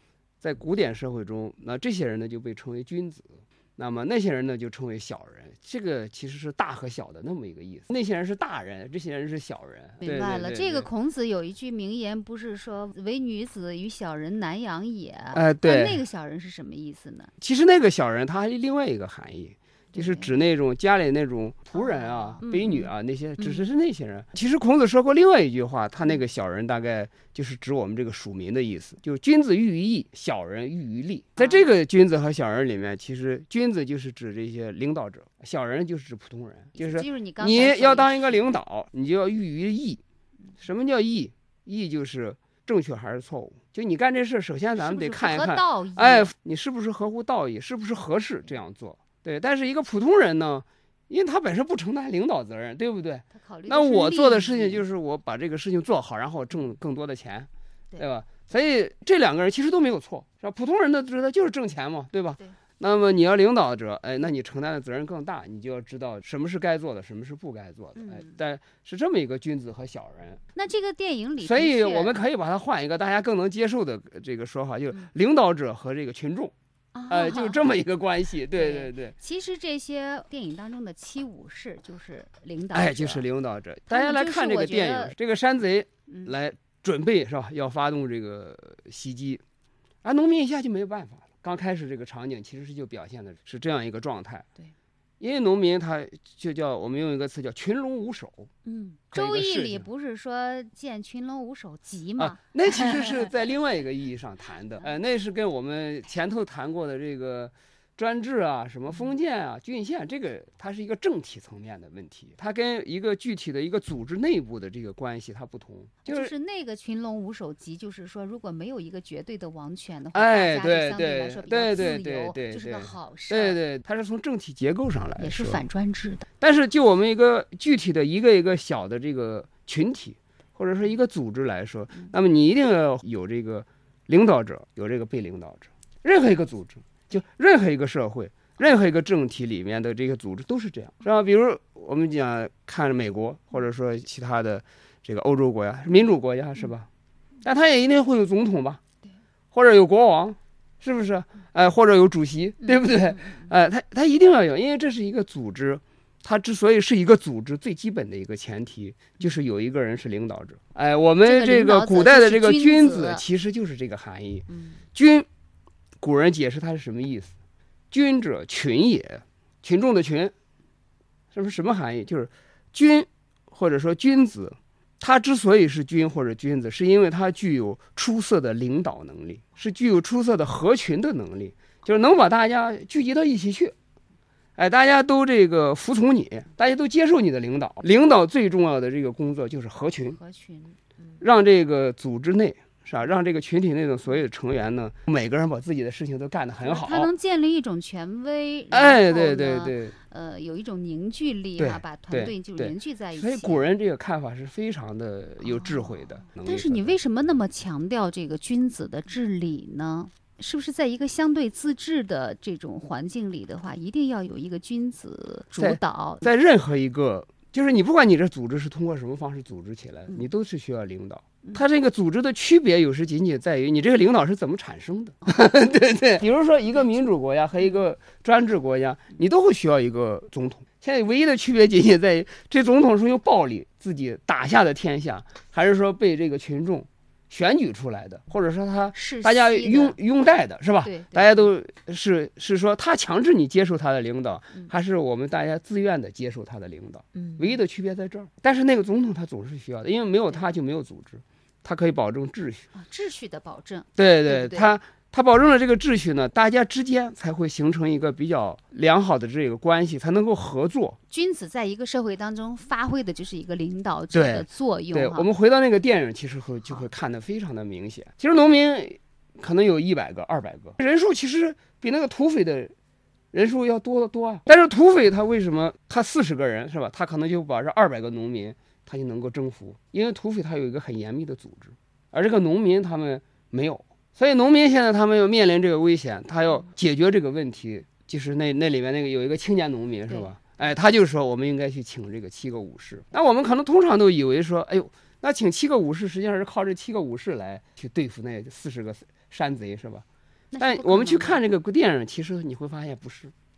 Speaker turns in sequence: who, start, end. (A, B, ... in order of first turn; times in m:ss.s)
0:00.4-0:10.9 A
0:10.0-0:17.3 B
0:15.3-0:16.0 A
0:17.4-0:40.0 A
0:19.9-0:20.3 B
0:22.4-0:23.7 B
0:31.4-0:31.6 B
0:36.8-0:38.4 B
0:40.6-1:10.4 A
0:44.8-0:46.3 B
0:53.3-0:54.8 B
1:08.0-1:08.3 B
1:10.6-1:12.1 B
1:11.4-1:16.5 A
1:16.9-1:17.6 B
1:17.1-1:19.1 A
1:18.5-1:23.2 B
1:22.7-1:29.4 A
1:23.9-1:25.1 B
1:30.0-1:34.5 A
1:35.2-1:38.5 A
1:38.6-1:42.4 B
1:39.1-1:39.9 A
1:42.2-1:56.3 A
1:56.0-2:03.6 B
2:00.1-2:05.6 A
2:05.2-2:06.3 B
2:06.4-2:26.9 A
2:27.4-2:28.8 A
2:29.5-2:45.2 A
2:32.6-2:33.4 B
2:41.2-2:43.2 B
2:44.5-2:44.8 B
2:46.0-2:47.3 A
2:47.9-2:50.3 A
2:51.3-3:03.7 A
3:04.6-3:10.2 A
3:10.1-3:10.8 B
3:11.2-3:17.1 A
3:16.6-3:23.6 B
3:18.7-3:19.9 A
3:21.6-3:26.9 A
3:25.4-3:36.3 B
3:35.6-4:12.7 A
3:58.9-4:00.0 B
4:00.8-4:01.4 B
4:07.1-4:07.6 B
4:12.7-4:14.7 B
4:14.0-4:21.0 A
4:21.1-4:25.3 B
4:24.1-4:32.7 A
4:33.3-5:00.0 A
5:00.5-5:01.4 B
5:00.6-5:03.3 A